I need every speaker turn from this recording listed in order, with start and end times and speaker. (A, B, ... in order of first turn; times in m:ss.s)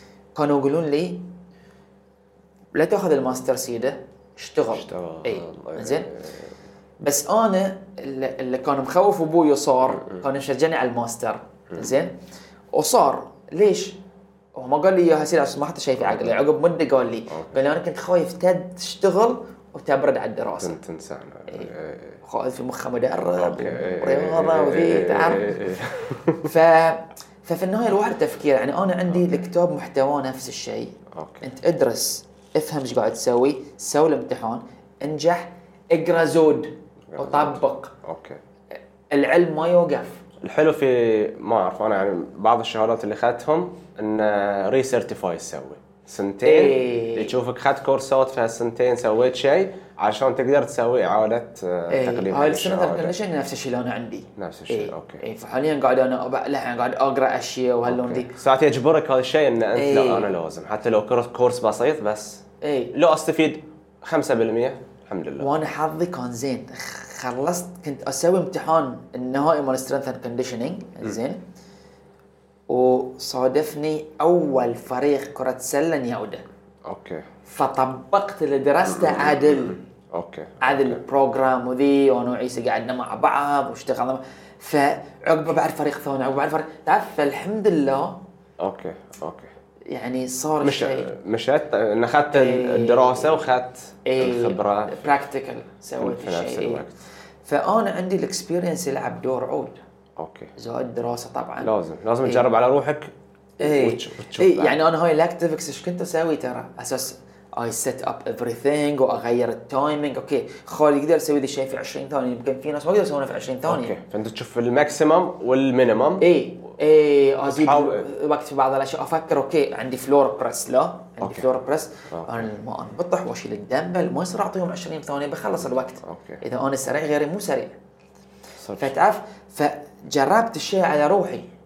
0:00.4-0:01.2 A
0:02.7-0:06.1 A
0:04.7-0:06.5 B
0:07.0-0:12.2 A
0:12.7-0:14.0 A
0:14.6-0:20.8 A
0:16.0-0:16.4 B
0:20.6-0:22.2 B
0:22.2-0:25.6 A
0:23.4-0:26.5 B
0:26.4-0:37.9 A
0:31.1-0:31.4 B
0:37.1-0:38.4 B
0:39.1-0:40.2 A
0:40.4-0:53.2 B
0:46.4-0:47.4 A
0:51.9-0:58.4 A
0:54.4-0:55.2 B
0:57.9-1:05.5 B
0:59.8-1:00.3 A
1:02.6-1:02.9 A
1:05.4-1:11.4 A
1:12.7-1:16.4 A
1:16.8-1:17.3 B
1:17.5-1:19.8 A
1:18.9-1:21.0 B
1:20.6-1:28.2 A
1:28.6-1:29.5 B
1:29.9-1:31.1 A
1:30.6-1:35.2 B
1:32.3-1:33.4 A
1:34.0-1:36.8 A
1:36.0-1:37.0 B
1:37.5-1:39.8 A
1:40.2-1:40.5 B
1:40.6-1:41.7 A
1:41.6-1:43.1 B
1:43.6-1:54.0 A
1:43.6-1:44.8 B
1:53.7-1:56.2 B
1:56.2-2:07.8 A
1:57.5-1:58.0 B
2:01.2-2:01.5 B
2:02.1-2:02.5 B
2:06.0-2:06.4 B
2:08.6-2:08.9 B
2:08.8-2:11.5 A